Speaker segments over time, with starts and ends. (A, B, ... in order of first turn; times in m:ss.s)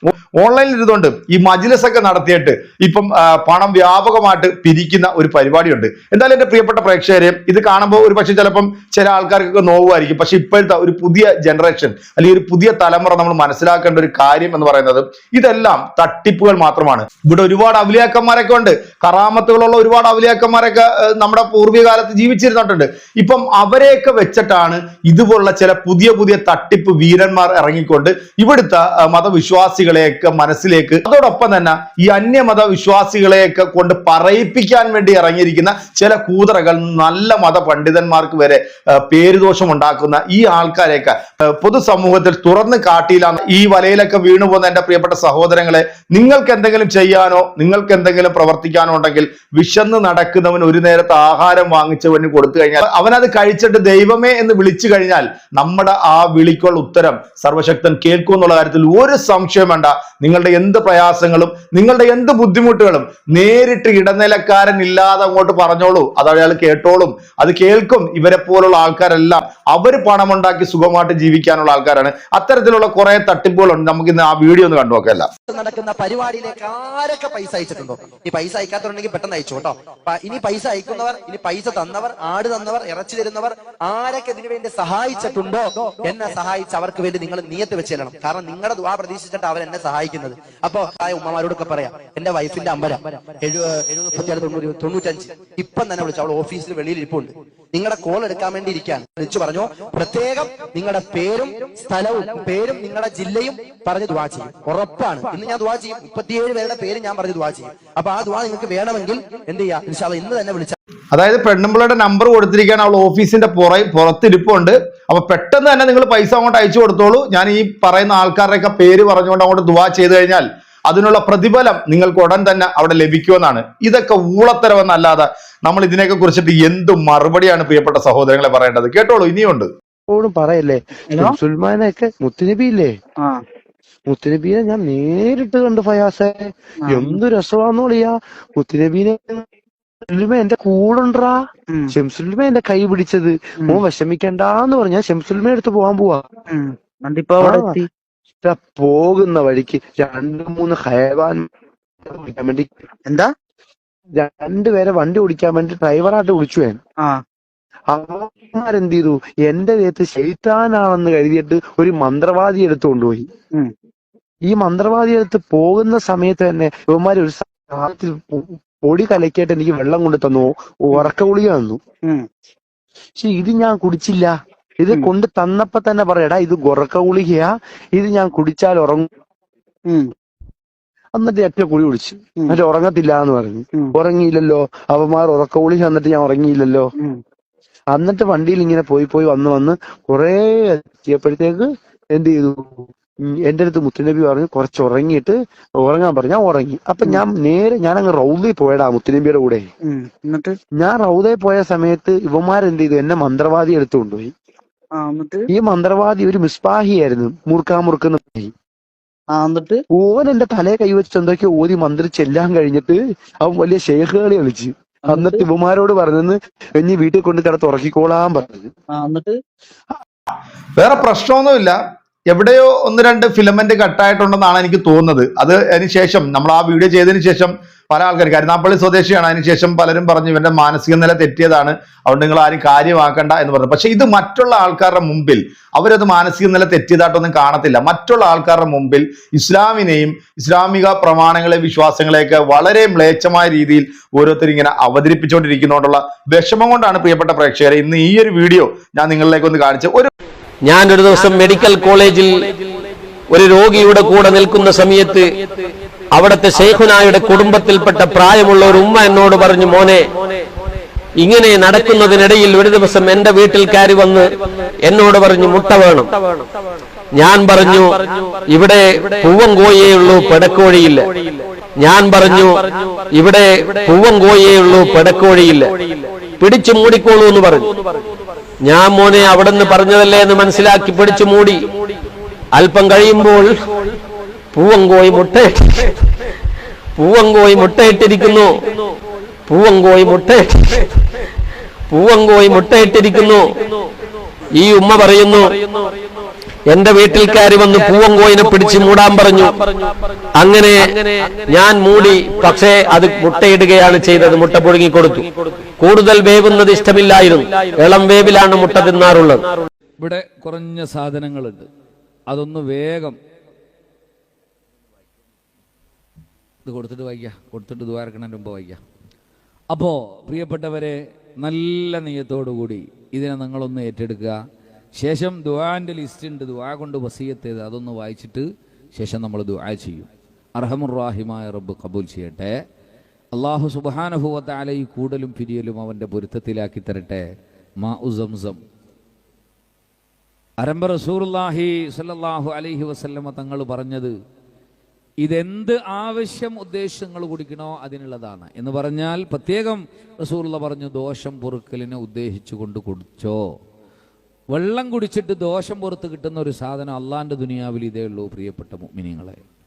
0:00.4-1:15.3 A
1:15.5-1:50.8 B
1:51.1-2:09.7 A
2:10.1-2:12.9 C
2:14.1-2:19.4 C
2:16.8-2:17.2 D
2:20.1-2:21.4 C
2:21.9-2:26.2 C
2:26.5-2:27.9 D
2:27.4-2:27.8 C
2:28.4-2:31.4 C
2:32.0-2:32.9 C
2:33.1-2:33.3 D
2:34.2-2:36.8 C
2:37.9-2:43.3 C
2:44.5-2:51.8 C
2:53.2-2:59.1 C
3:01.2-3:06.9 C
3:07.9-3:19.7 C
3:19.9-3:20.6 D
3:20.8-3:24.3 C
3:25.0-3:25.4 D
3:25.5-3:28.5 C
3:29.3-3:29.8 D
3:29.9-3:38.7 C
3:35.1-3:35.4 D
3:38.9-3:39.4 D
3:40.8-3:41.8 A
3:42.3-4:10.1 A
4:10.7-4:12.5 E
4:13.3-4:15.4 E
4:16.1-4:20.1 E
4:21.2-4:26.1 E
4:27.2-4:31.1 E
4:31.8-4:35.7 E
4:36.4-4:37.8 E
4:38.7-4:41.7 E
4:42.5-4:43.6 E
4:44.5-4:45.9 E
4:47.0-4:48.6 E
4:49.5-4:50.9 E
4:51.9-4:53.5 E
4:54.6-4:55.6 E
4:56.7-4:59.7 E
5:00.4-5:09.5 E
5:10.0-5:11.7 F
5:12.3-5:13.2 F
5:16.6-5:18.8 F
5:19.7-5:24.4 F
5:25.0-5:32.5 F
5:33.3-5:37.2 F
5:37.8-5:38.6 F
5:40.6-5:44.1 F
5:45.2-5:53.4 F
5:54.5-5:59.4 F